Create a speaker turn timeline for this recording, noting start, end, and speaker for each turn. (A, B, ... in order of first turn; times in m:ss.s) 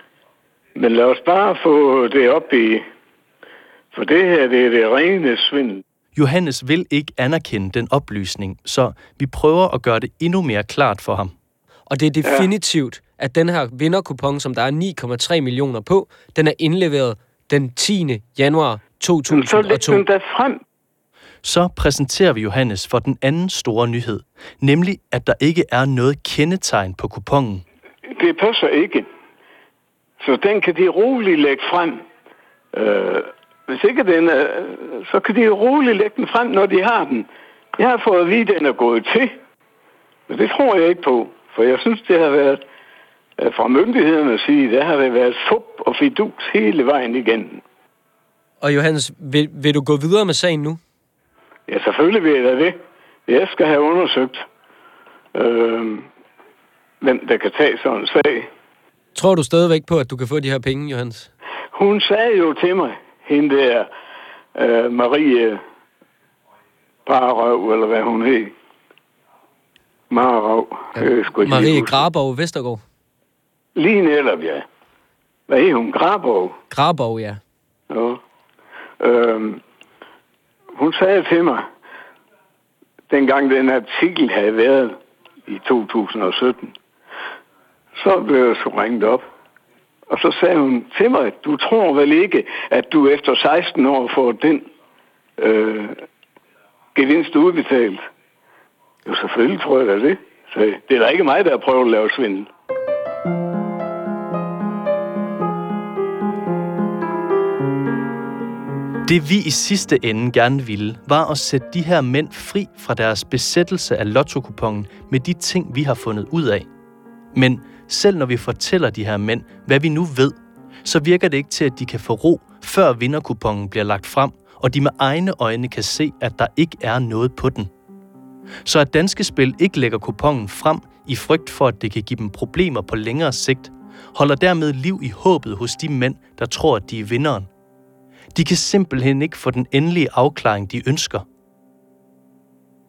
0:00.8-0:02.8 A
0:03.9-0:05.8 A
0:06.2-0:11.4 B
0:11.9-0:20.0 C
0:12.2-0:12.5 A
0:19.3-0:20.6 A
0:21.4-0:27.6 B
0:28.1-0:29.1 A
0:30.2-0:32.0 A
0:32.7-0:39.4 A
0:40.3-0:42.6 A
0:43.4-0:47.6 A
0:48.6-0:50.8 C
0:51.7-0:54.5 A
0:55.3-0:56.1 A
0:57.0-0:58.5 A
0:59.2-1:01.3 C
1:01.7-1:03.9 A
1:04.6-1:05.6 A
1:07.1-1:08.5 A
1:10.1-1:12.0 A
1:11.0-1:12.8 C
1:13.8-1:14.7 A
1:15.5-1:16.6 A
1:16.7-1:17.4 C
1:17.9-1:18.2 A
1:19.0-1:19.6 A
1:20.7-1:21.7 A
1:23.1-1:26.8 A
1:28.0-1:29.2 A
1:30.1-1:34.7 A
1:35.4-1:36.0 A
1:37.0-1:38.1 A
1:39.0-1:42.5 A
1:49.1-1:56.7 B
1:57.3-2:07.7 B
2:08.6-2:17.5 B
2:18.3-2:21.3 B